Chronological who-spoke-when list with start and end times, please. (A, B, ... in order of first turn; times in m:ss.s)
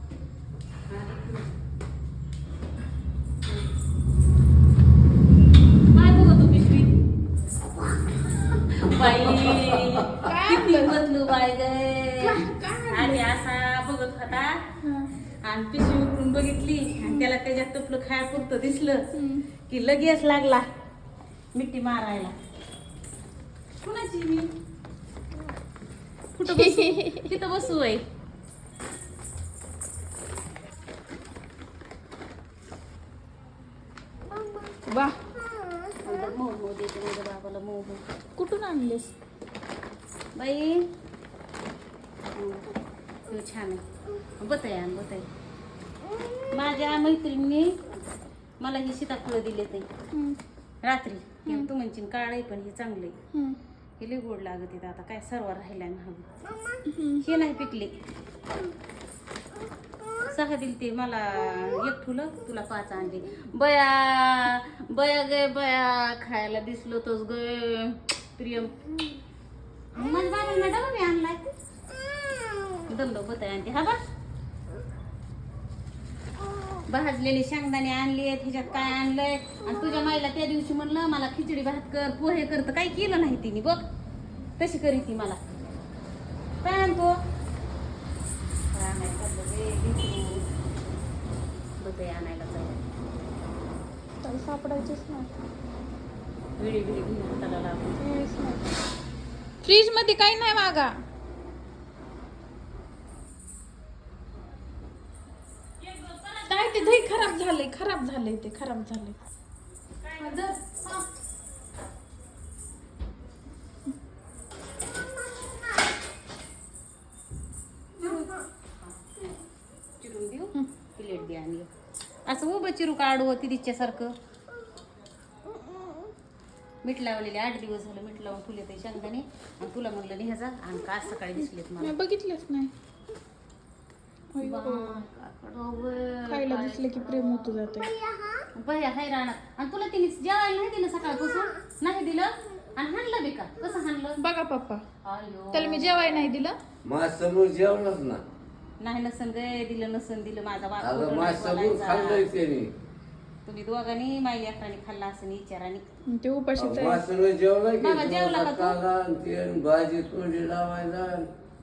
0:00.9-0:01.5 A
0:05.9-0:07.0 A
0:08.4-0:14.7 A
0:10.2-0:11.0 B
0:12.2-0:13.2 B
0:14.8-0:15.1 B
0:15.4-0:19.1 A
0:17.0-0:17.3 B
0:19.1-0:19.4 B
0:19.7-0:20.6 A
0:21.5-0:22.3 A
0:23.8-0:24.5 A
0:26.4-0:28.0 A
0:26.4-0:27.3 B
0:34.9-0:35.2 B
0:36.0-0:38.0 A
0:38.4-0:39.1 B
0:40.4-0:40.8 A
0:42.3-0:42.7 A
0:43.3-0:43.8 A
0:44.4-0:45.2 A
0:46.5-0:47.9 A
0:48.6-0:49.9 A
0:50.1-0:50.4 B
0:50.8-0:53.2 A
0:54.0-0:56.4 A
0:56.9-0:57.2 B
0:57.2-0:57.9 A
1:00.2-1:08.8 A
1:09.9-1:11.5 A
1:12.9-1:14.0 A
1:16.9-1:23.8 A
1:24.6-1:25.4 A
1:26.6-1:27.2 A
1:28.7-1:30.4 A
1:31.8-1:32.8 A
1:34.2-1:35.3 B
1:36.6-1:38.0 A
1:38.0-1:38.7 B
1:39.6-1:40.9 B
1:45.8-1:47.4 A
1:46.5-1:49.2 B
1:50.0-1:51.0 A
1:58.0-1:59.2 A
2:00.0-2:01.7 A
2:02.3-2:04.1 A
2:06.8-2:11.9 A
2:11.8-2:12.7 B
2:14.4-2:15.0 B
2:14.4-2:17.5 A
2:16.3-2:17.9 B
2:18.5-2:24.2 A
2:24.2-2:24.8 B
2:25.0-2:26.2 A
2:25.5-2:26.6 B
2:26.8-2:28.2 C
2:28.8-2:32.3 A
2:30.8-2:32.7 C
2:33.4-2:35.8 A
2:36.1-2:37.0 B
2:36.6-2:41.3 C
2:37.8-2:38.8 A